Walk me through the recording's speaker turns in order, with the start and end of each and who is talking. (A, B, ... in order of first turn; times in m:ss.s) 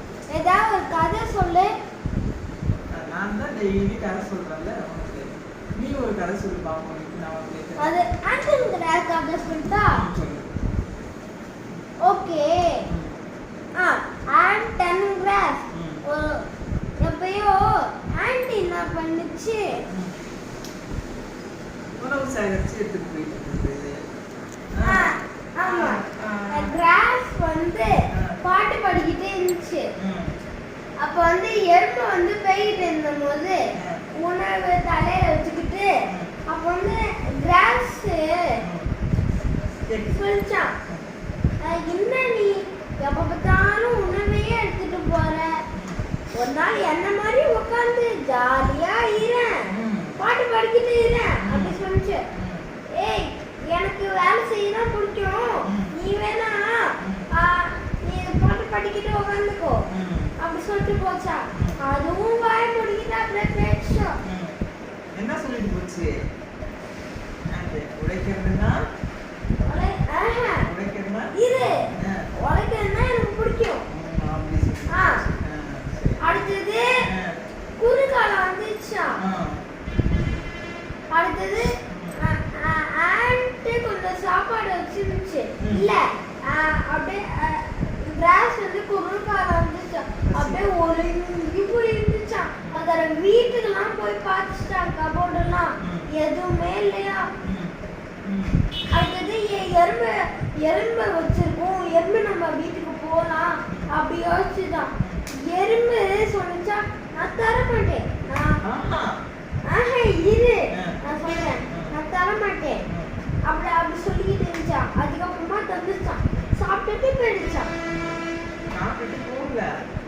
0:00.3-0:01.7 A
0:02.9-0:05.2 B
0:05.8-0:07.9 B
0:07.8-0:10.0 A
0:09.9-0:10.5 B
0:12.0-0:12.8 A
0:12.9-0:13.1 B
0:13.8-0:16.4 A
0:15.7-0:16.0 B
0:17.0-0:19.8 A
0:19.9-0:20.1 B
0:22.0-0:24.0 B
0:24.8-0:25.1 B
0:24.8-0:29.9 A
0:25.6-0:26.8 B
0:30.0-0:30.3 B
0:31.0-0:33.6 A
0:34.2-0:35.9 A
0:36.1-0:36.3 B
0:36.5-0:38.6 A
0:38.6-0:38.9 B
0:39.9-0:40.3 B
0:40.1-0:40.7 A
0:41.6-0:45.6 A
0:45.7-0:46.0 B
0:46.3-0:52.2 A
0:49.7-0:50.2 B
0:51.4-0:52.7 B
0:53.0-0:59.8 A
0:55.6-0:55.9 B
0:57.0-0:57.3 B
0:59.9-1:00.3 B
1:00.4-1:04.1 A
1:01.5-1:01.8 B
1:04.2-1:04.5 B
1:05.2-1:06.1 B
1:07.5-1:08.8 B
1:09.6-1:10.6 A
1:10.6-1:12.2 B
1:11.3-1:11.8 A
1:12.4-1:13.8 A
1:13.9-1:17.4 B
1:14.9-1:15.2 A
1:16.2-1:16.9 A
1:17.8-1:19.2 A
1:19.2-1:20.4 B
1:21.1-1:37.3 A
1:21.9-1:22.3 B
1:25.6-1:25.9 B
1:30.3-1:30.6 B
1:35.8-1:36.1 B
1:37.4-1:38.6 B
1:38.9-1:48.6 A
1:43.7-1:44.0 B
1:45.0-1:45.2 B
1:48.6-1:49.1 B
1:49.6-1:52.8 A
1:50.7-1:51.0 B
1:51.6-1:52.0 B
1:52.9-1:53.1 B
1:53.5-1:57.7 A
1:57.8-1:58.2 B
1:58.7-1:59.7 B